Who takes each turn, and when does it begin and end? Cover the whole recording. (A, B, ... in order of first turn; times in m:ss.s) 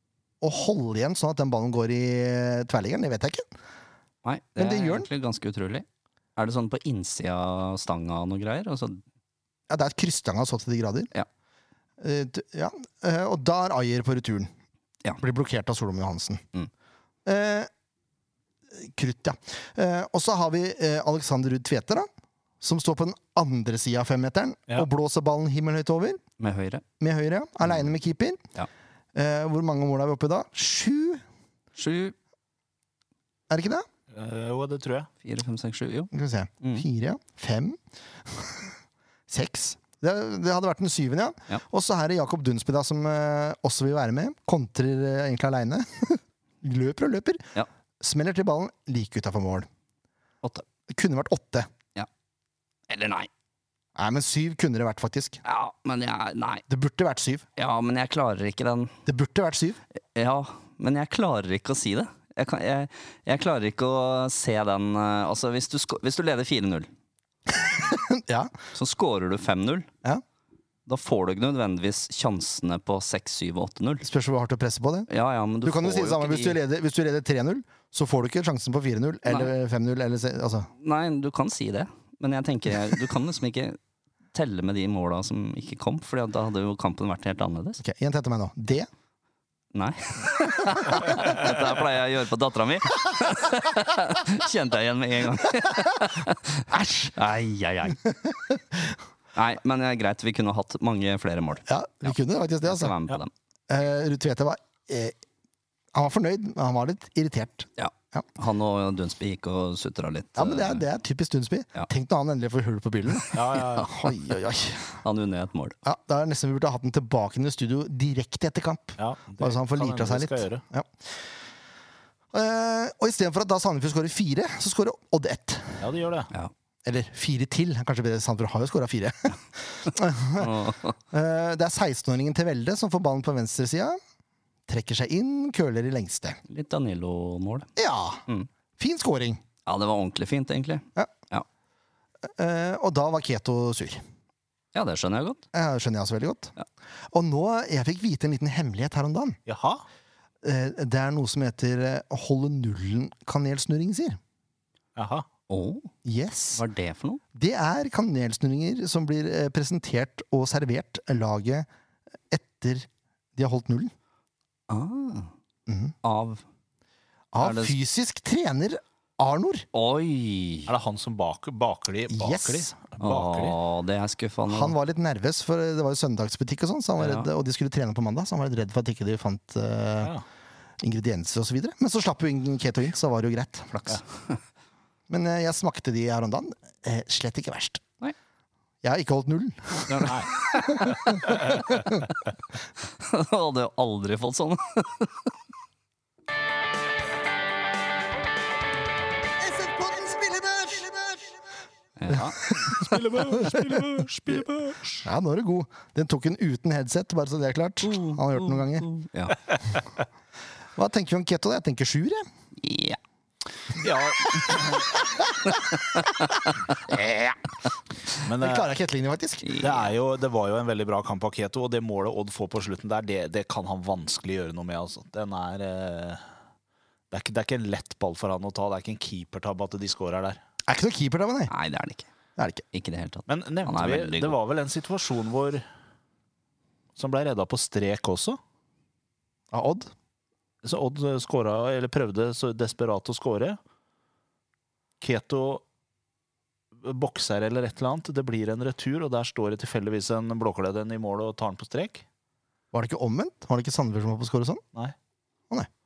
0:00.4-0:03.5 A
0:04.2-0:09.0 B
0:04.6-0:05.1 A
0:09.7-0:11.1 A
0:12.0-0:14.5 A
0:15.2-0:16.4 A
0:17.2-0:17.7 A
0:18.7-0:22.1 A
0:22.6-0:26.2 A
0:26.4-0:26.8 B
0:27.0-0:28.4 A
0:29.1-0:31.2 A
0:31.7-0:32.1 B
0:33.5-0:33.9 A
0:34.1-0:35.1 C
0:35.2-0:36.1 B
0:36.1-0:38.7 A
0:39.3-0:47.4 A
0:48.0-0:49.7 A
0:50.9-0:51.7 A
0:52.9-0:53.3 B
0:54.0-0:55.4 A
0:55.4-0:56.6 B
0:56.7-0:57.4 A
0:57.6-0:59.0 B
0:59.1-0:59.8 A
1:00.1-1:06.9 B
1:07.7-1:08.5 A
1:08.7-1:09.9 B
1:10.9-1:14.0 B
1:14.0-1:15.1 A
1:15.1-1:16.6 B
1:15.6-1:20.7 A
1:20.8-1:23.8 B
1:24.3-1:27.8 B
1:27.8-1:28.9 A
1:29.7-1:38.0 B
1:36.7-1:37.1 A
1:39.4-1:42.1 B
1:41.7-1:42.9 A
1:42.6-1:43.3 B
1:43.7-1:45.1 A
1:45.9-1:48.2 A
1:47.8-1:50.8 B
1:50.4-1:55.0 A
1:53.3-1:53.9 C
1:53.8-1:54.1 B
1:55.0-1:55.8 B
1:55.8-2:00.9 A
1:59.0-2:00.6 C
2:02.3-2:05.8 A
2:05.8-2:06.3 C
2:06.8-2:14.0 A
2:10.4-2:11.0 B
2:14.7-2:16.4 A
2:16.5-2:17.7 B
2:17.8-2:18.2 A
2:18.8-2:19.4 A
2:19.6-2:21.4 B
2:22.4-2:24.0 A
2:24.7-2:25.4 B
2:25.5-2:26.5 A
2:27.1-2:29.4 A
2:29.4-2:29.8 C
2:30.4-2:34.2 A
2:35.0-2:35.3 C
2:35.5-2:35.9 B
2:36.0-2:36.6 A
2:36.6-2:37.2 B
2:37.3-2:41.7 A
2:42.3-2:43.9 A
2:44.7-2:45.3 B
2:45.7-2:45.9 A
2:46.0-2:46.4 B
2:47.3-2:49.7 A
2:47.4-2:47.8 B
2:49.7-2:50.7 B
2:50.7-2:53.6 C
2:52.1-2:52.7 A
2:53.0-2:54.7 B
2:54.5-3:00.1 A
2:57.0-2:57.3 B
3:00.8-3:04.0 A
3:03.7-3:04.4 B
3:05.1-3:07.8 A
3:08.8-3:12.1 A
3:09.9-3:11.6 B
3:10.0-3:10.3 C
3:13.0-3:15.3 B
3:19.4-3:21.3 A
3:22.0-3:22.7 B
3:22.1-3:23.9 A
3:22.7-3:25.0 C
3:25.0-3:28.9 A
3:27.8-3:29.4 B
3:30.8-3:32.2 A
3:32.6-3:33.0 B
3:33.8-3:34.9 C
3:35.8-3:36.5 B
3:36.9-3:37.3 A
3:38.2-3:38.7 C
3:38.4-3:39.6 A
3:39.4-3:39.8 B
3:39.6-3:46.2 C
3:47.1-3:50.4 C
3:50.7-3:51.5 A
3:51.5-3:52.1 B
3:52.4-3:52.6 A
3:52.7-3:54.4 B
3:53.3-3:55.6 C
3:57.0-3:58.4 C
3:59.5-3:59.9 A
4:00.6-4:03.6 C
4:05.0-4:05.6 C
4:06.7-4:12.0 C
4:12.7-4:14.6 A